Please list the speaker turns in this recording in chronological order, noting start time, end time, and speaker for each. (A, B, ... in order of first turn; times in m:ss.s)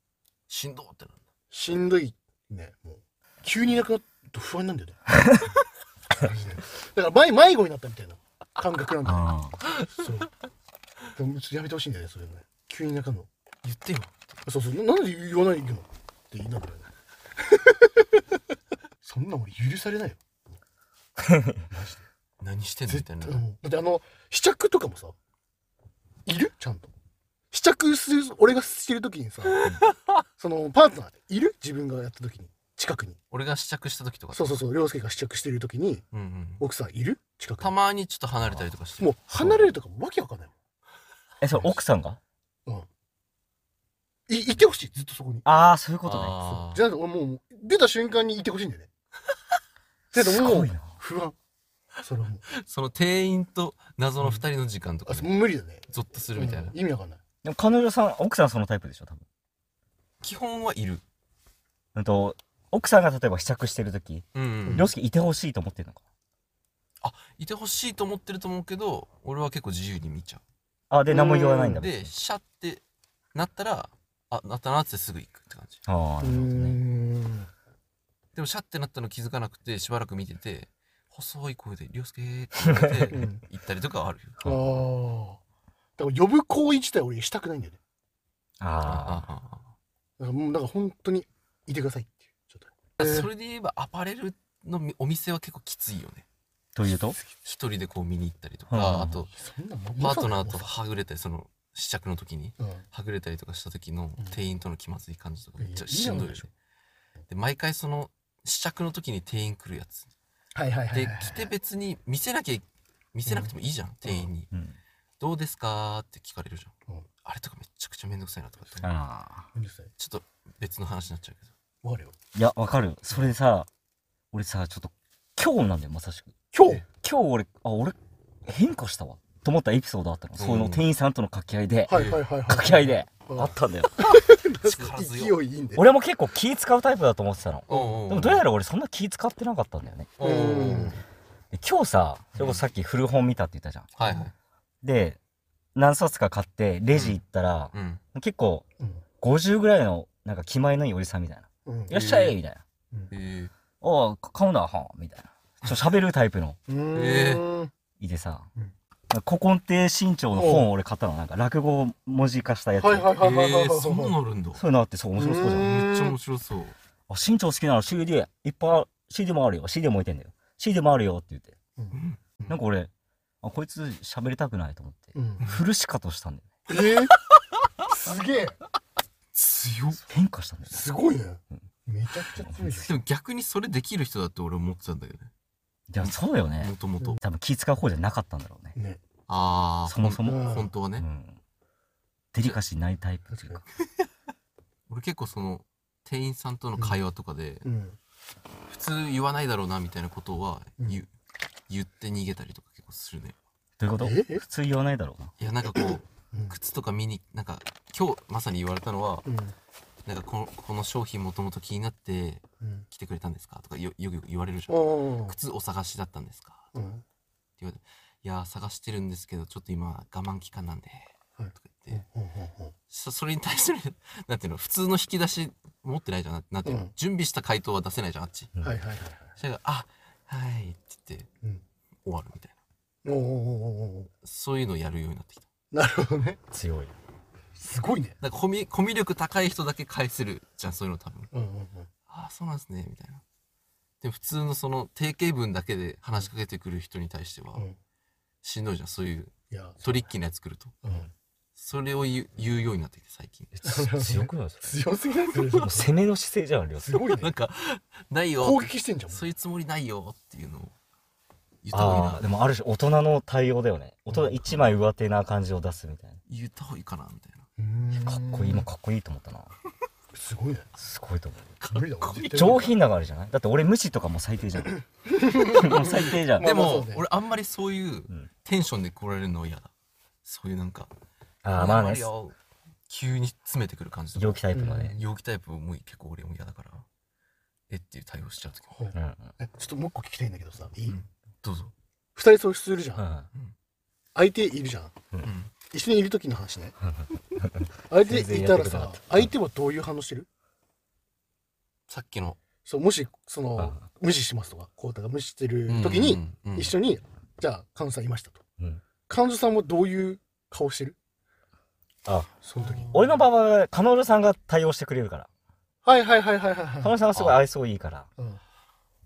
0:00.5-0:01.2 A
0:01.5-0:05.0 B
0:06.1-0:09.3 B
0:09.0-0:09.6 C
0:09.9-0:10.3 B
0:11.2-0:13.3 B
0:13.6-0:14.2 A
0:14.4-0:18.4 B
0:19.0-0:20.2 B
0:21.2-0:21.6 C
0:21.7-0:22.1 B
0:22.4-0:23.4 A
0:22.9-0:25.2 B
0:26.3-0:26.9 B
0:27.5-0:29.7 B
0:29.5-0:30.1 A
0:30.4-0:33.2 B
0:33.3-0:34.6 A
0:34.3-0:36.0 B
0:36.1-0:36.6 A
0:36.6-0:37.7 B
0:37.6-0:39.7 A
0:39.0-0:40.5 B
0:41.4-0:42.2 C
0:44.3-0:45.5 B
0:45.4-0:46.5 C
0:46.0-0:46.8 A
0:46.6-0:48.9 B
0:50.1-0:51.4 B
0:50.2-0:50.9 C
0:52.0-0:52.4 B
0:52.5-0:55.3 A
0:55.1-0:57.2 B
0:55.9-0:56.8 A
0:57.4-0:59.2 C
1:00.2-1:01.0 A
1:02.0-1:06.0 C
1:04.3-1:04.9 A
1:07.0-1:10.4 A
1:10.9-1:12.1 C
1:11.1-1:11.8 B
1:11.8-1:12.8 A
1:13.3-1:15.8 A
1:15.9-1:16.8 C
1:16.2-1:17.5 B
1:18.4-1:24.4 A
1:22.7-1:23.1 C
1:23.1-1:23.4 B
1:24.4-1:25.4 B
1:26.0-1:27.8 B
1:28.6-1:29.3 C
1:28.8-1:29.7 A
1:30.2-1:33.3 B
1:33.0-1:36.2 A
1:36.8-1:37.2 C
1:37.4-1:39.3 A
1:38.7-1:39.2 C
1:39.3-1:40.7 B
1:40.0-1:46.5 A
1:42.6-1:42.8 B
1:45.6-1:46.5 B
1:47.3-1:50.1 A
1:50.6-1:51.5 B
1:50.9-1:54.5 A
1:53.3-1:53.5 B
1:54.0-1:54.3 B
1:54.5-1:54.8 C
1:55.2-1:58.9 A
1:58.8-1:59.5 C
1:59.5-1:59.9 B
2:00.0-2:01.5 A
2:01.8-2:02.2 B
2:02.4-2:03.7 C
2:04.3-2:06.4 C
2:06.5-2:06.8 B
2:06.9-2:13.9 C
2:10.4-2:10.8 A
2:11.9-2:15.9 B
2:11.9-2:12.2 A
2:14.6-2:15.4 A
2:15.8-2:20.1 C
2:17.7-2:18.4 A
2:20.2-2:21.0 A
2:20.2-2:21.0 B
2:21.5-2:23.9 C
2:24.0-2:24.3 A
2:24.8-2:25.2 C
2:25.8-2:28.6 C
2:26.9-2:27.2 A
2:27.7-2:28.0 A
2:29.2-2:32.6 C
2:31.7-2:31.9 B
2:31.9-2:32.4 A
2:33.1-2:33.5 A
2:33.8-2:36.6 C
2:36.7-2:37.7 B
2:36.9-2:37.5 A
2:38.0-2:38.5 C
2:39.1-2:43.1 C
2:40.4-2:40.7 B
2:42.8-2:44.2 B
2:43.2-2:44.6 A
2:44.6-2:45.7 C
2:45.2-2:46.2 B
2:45.5-2:46.8 A
2:47.1-2:51.6 C
2:51.8-2:52.5 B
2:51.9-2:52.3 A
2:52.5-2:52.9 C
2:53.4-2:56.5 C
2:55.2-2:55.4 B
2:56.7-2:57.2 B
2:57.9-2:58.6 B
2:59.3-3:00.0 A
3:00.0-3:00.8 C
3:00.7-3:03.0 B
3:02.7-3:05.3 A
3:05.9-3:08.8 C
3:06.0-3:07.2 A
3:08.8-3:09.0 B
3:09.3-3:11.1 A
3:09.9-3:11.4 C
3:10.2-3:10.7 B
3:12.3-3:13.6 C
3:13.3-3:13.6 B
3:14.9-3:17.7 A
3:17.6-3:18.0 B
3:18.7-3:21.1 A
3:21.7-3:23.4 A
3:23.8-3:25.3 C
3:24.0-3:24.4 B
3:25.4-3:29.3 A
3:25.8-3:26.6 B
3:29.2-3:29.6 B
3:30.1-3:36.7 A
3:34.7-3:35.4 B
3:36.7-3:37.0 B
3:37.6-3:42.0 A
3:41.4-3:42.7 B
3:42.9-3:48.5 A
3:46.6-3:46.9 B
3:48.6-3:49.3 B
3:49.4-3:51.3 A
3:52.0-3:52.6 A
3:53.0-3:54.1 B
3:54.2-3:55.5 A
3:55.7-3:56.4 B
3:56.5-3:56.9 C
3:57.6-3:58.2 B
3:58.2-4:01.3 A
4:01.3-4:01.9 B
4:02.1-4:03.2 A
4:04.0-4:07.7 A
4:08.4-4:10.9 A
4:09.5-4:10.0 B
4:10.8-4:11.1 B
4:11.6-4:13.5 A
4:13.6-4:14.8 C
4:13.6-4:15.9 B
4:15.6-4:17.1 C
4:16.8-4:17.4 B
4:17.1-4:20.7 A
4:18.4-4:19.3 B
4:21.6-4:22.2 A
4:21.7-4:26.2 C
4:26.3-4:27.4 A
4:27.6-4:28.7 B
4:28.0-4:29.5 C
4:30.1-4:30.7 B
4:30.8-4:31.6 C
4:31.6-4:32.7 A
4:31.7-4:32.6 B
4:32.3-4:34.8 C
4:34.8-4:37.0 B
4:35.5-4:36.5 C
4:35.6-4:39.7 A
4:40.2-4:40.9 A
4:41.4-4:42.1 C
4:41.5-4:42.4 A
4:42.9-4:46.9 A
4:44.2-4:45.0 C
4:44.5-4:45.0 B
4:47.7-4:48.8 A
4:48.7-4:51.0 B
4:48.9-4:49.3 C
4:50.9-4:51.7 A
4:52.2-4:53.1 B
4:53.0-4:53.3 C
4:54.2-4:55.0 B
4:55.2-4:55.5 A
4:55.7-4:56.7 B
4:56.8-4:59.3 C
4:57.9-5:00.3 B
5:01.9-5:02.4 A
5:02.6-5:08.4 B
5:05.7-5:06.7 A
5:09.1-5:11.0 B
5:12.1-5:12.3 C
5:12.4-5:13.2 B
5:12.9-5:15.3 C
5:15.8-5:17.0 B
5:16.8-5:18.1 C
5:17.1-5:17.4 A